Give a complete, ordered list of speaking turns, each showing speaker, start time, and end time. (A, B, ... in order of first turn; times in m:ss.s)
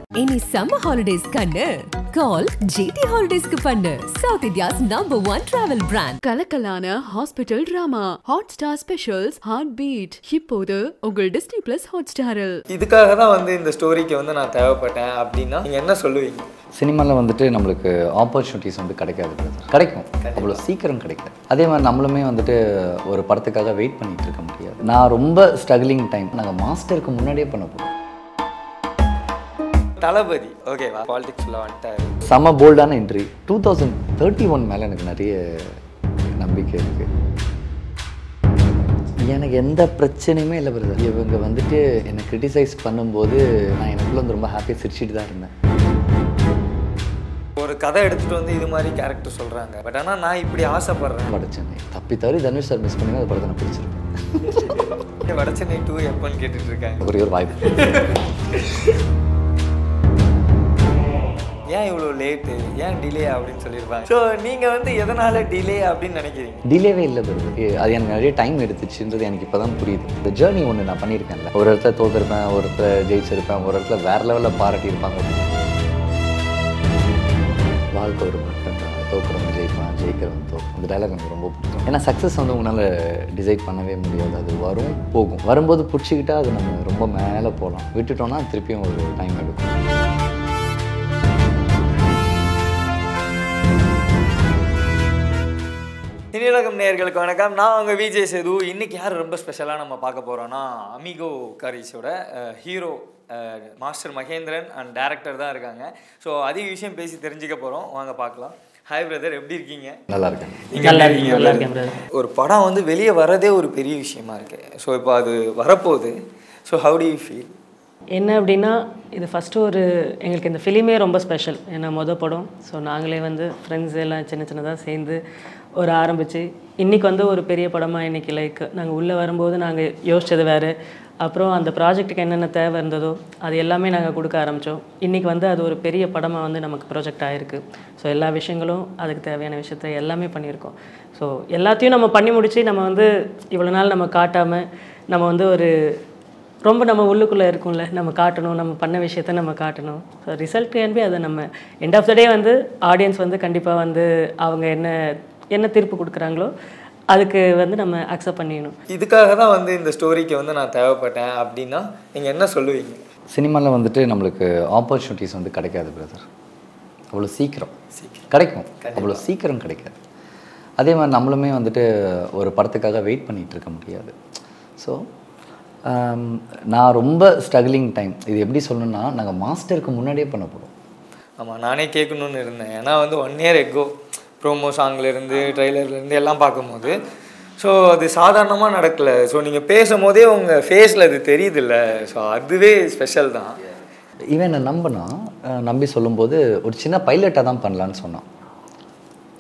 0:00.2-0:06.2 A
0:06.2-0:12.6 B
0:12.7-0:16.5 C
0:16.8-0:27.9 D
0:20.2-0:20.6 C
0:30.0-0:32.2 C
0:32.3-0:35.8 D
0:36.4-0:37.1 D
0:39.3-0:45.5 D
0:47.6-0:51.3 C
0:51.3-0:54.8 D
0:55.2-0:57.1 C
0:57.0-0:57.7 D
0:57.6-0:59.0 C
1:01.7-1:06.6 C
1:06.7-1:15.6 D
1:17.9-1:29.8 D
1:36.3-1:50.0 C
1:50.1-1:50.6 D
1:50.7-1:56.2 C
1:50.8-1:52.0 E
1:56.7-1:57.5 C
1:58.1-2:05.2 E
2:05.8-2:25.7 E
2:26.6-2:35.0 E
2:35.5-2:36.5 E
2:37.1-2:38.8 E
2:38.9-2:43.0 C
2:43.3-2:46.3 D
2:47.1-2:47.7 D
2:48.0-2:48.3 C
2:48.3-2:50.0 D
2:48.8-2:49.2 C
2:50.8-2:54.1 D
2:55.9-3:00.7 D
3:01.4-3:07.0 C
3:07.6-3:13.5 C
3:14.3-3:18.2 D